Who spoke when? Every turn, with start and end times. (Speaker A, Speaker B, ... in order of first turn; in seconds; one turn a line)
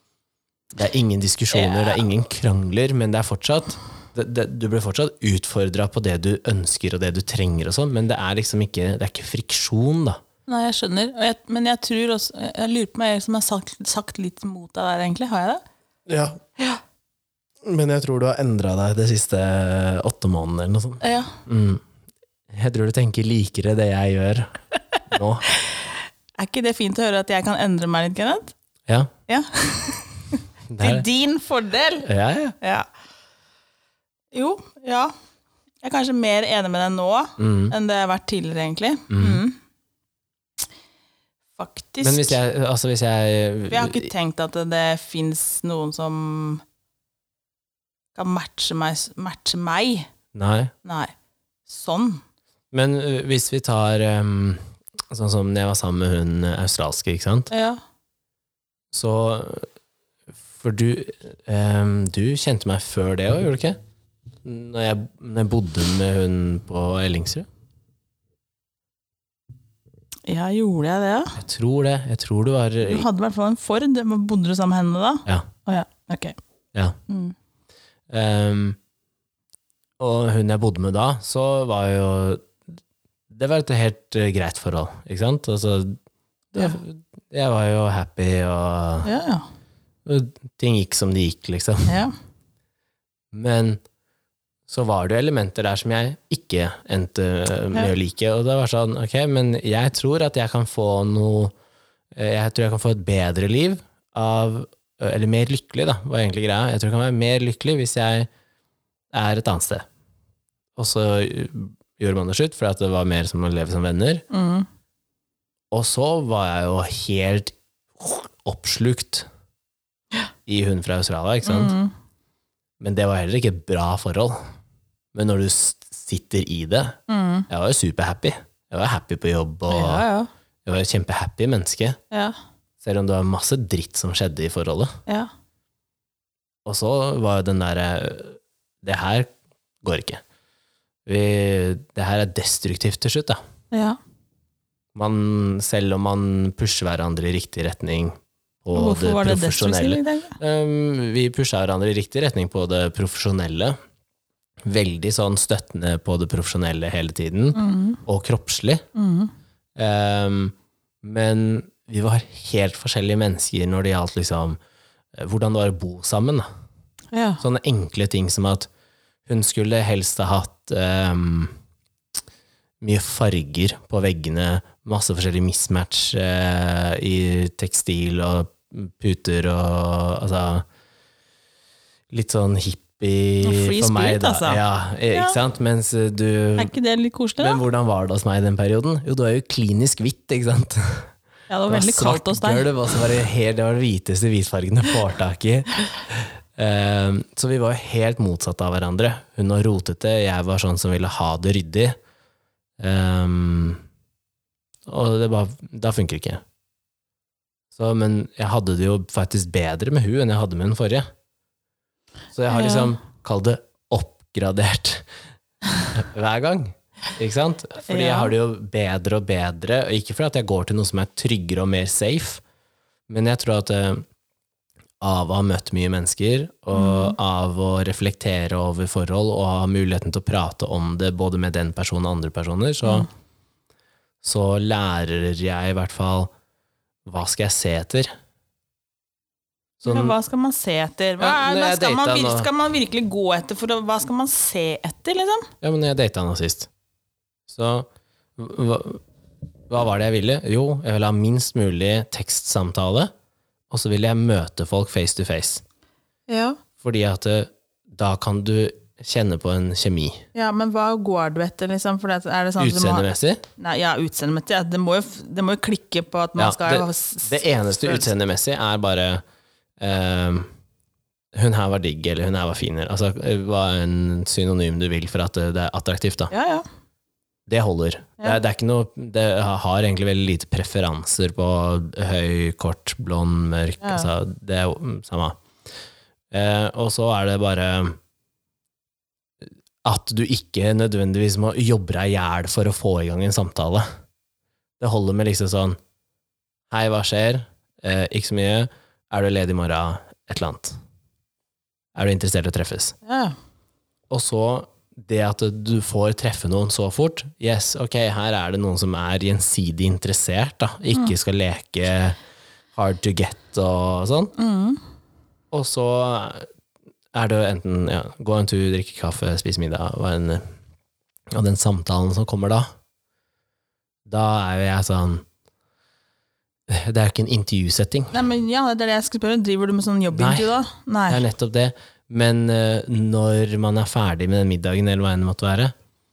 Speaker A: 0.7-10.2
Speaker B: 1.5-2.0
Speaker B: 10.5-15.6
Speaker A: 16.1-16.4
Speaker A: 17.6-21.8
Speaker B: 21.0-21.4
Speaker A: 22.5-24.5
Speaker A: 25.1-25.4
Speaker B: 26.4-28.5
Speaker B: 29.3-32.1
Speaker A: 30.7-31.1
Speaker A: 32.0-32.5
Speaker B: 32.6-32.9
Speaker B: 34.3-35.1
Speaker B: 35.8-39.6
Speaker A: 37.4-37.7
Speaker A: 39.1-39.4
Speaker B: 41.6-42.4
Speaker A: 42.0-44.1
Speaker B: 43.7-46.6
Speaker B: 48.1-50.1
Speaker A: 50.3-50.7
Speaker B: 50.9-51.1
Speaker B: 51.7-52.2
Speaker A: 52.7-57.5
Speaker B: 57.5-57.8
Speaker A: 58.9-59.7
Speaker A: 60.6-63.8
Speaker A: 64.5-67.5
Speaker B: 70.3-71.4
Speaker A: 71.4-73.1
Speaker B: 72.8-76.4
Speaker B: 77.1-77.3
Speaker A: 78.1-78.8
Speaker A: 80.0-82.5
Speaker A: 83.3-86.0
Speaker A: 86.5-89.1
Speaker B: 89.0-89.5
Speaker A: 90.0-92.0
Speaker B: 91.9-92.1
Speaker A: 93.3-93.8
Speaker A: 94.7-101.5
Speaker A: 102.1-108.3
Speaker A: 109.1-109.8
Speaker A: 110.8-114.2
Speaker B: 114.3-114.7
Speaker A: 115.7-119.3
Speaker A: 120.5-121.8
Speaker B: 121.5-121.9
Speaker A: 122.8-124.4
Speaker A: 125.1-127.0
Speaker B: 127.1-127.5
Speaker A: 127.5-130.0
Speaker B: 129.7-130.3
Speaker A: 130.7-132.0
Speaker A: 132.8-134.9
Speaker A: 136.7-139.3
Speaker A: 139.8-140.2
Speaker A: 141.1-143.4
Speaker B: 143.7-144.0
Speaker A: 144.9-153.8
Speaker B: 148.7-150.4
Speaker A: 154.7-158.8
Speaker B: 157.6-158.0
Speaker B: 158.9-159.3
Speaker A: 159.8-164.6
Speaker A: 165.2-166.5
Speaker B: 167.1-167.4
Speaker A: 167.4-168.7
Speaker A: 169.3-171.5
Speaker A: 172.8-180.7
Speaker A: 182.1-186.7
Speaker B: 183.4-185.4
Speaker B: 186.6-187.6
Speaker A: 187.4-191.1
Speaker B: 191.5-192.7
Speaker A: 191.7-202.0
Speaker A: 202.8-203.8
Speaker A: 204.9-206.4
Speaker A: 207.7-211.1
Speaker A: 212.3-215.1
Speaker B: 212.5-212.9
Speaker A: 215.9-222.4
Speaker B: 217.9-218.3
Speaker A: 223.1-224.0
Speaker A: 225.0-233.1
Speaker B: 226.7-227.2
Speaker A: 234.2-236.3
Speaker A: 237.1-238.1
Speaker A: 239.8-240.2
Speaker B: 239.8-245.5
Speaker A: 241.2-242.5
Speaker A: 245.6-246.7
Speaker A: 247.5-249.0
Speaker A: 249.7-253.1
Speaker A: 253.7-255.6
Speaker B: 256.3-256.6
Speaker A: 256.8-260.2
Speaker B: 260.3-268.1
Speaker A: 262.6-263.4
Speaker A: 266.4-269.2
Speaker A: 269.8-270.5
Speaker A: 271.3-276.3
Speaker B: 276.3-276.6
Speaker A: 277.5-285.4
Speaker B: 283.8-284.1
Speaker A: 286.3-288.0
Speaker A: 289.4-293.9
Speaker A: 294.8-295.8
Speaker A: 296.7-300.8
Speaker A: 301.9-302.9
Speaker B: 303.1-303.4
Speaker A: 304.1-312.2
Speaker A: 312.8-314.3
Speaker B: 314.4-314.8
Speaker A: 315.5-316.5
Speaker A: 317.1-320.4
Speaker A: 321.3-322.7
Speaker A: 324.1-325.2
Speaker A: 326.7-328.1
Speaker B: 328.1-331.2
Speaker A: 330.1-330.5
Speaker A: 331.1-335.7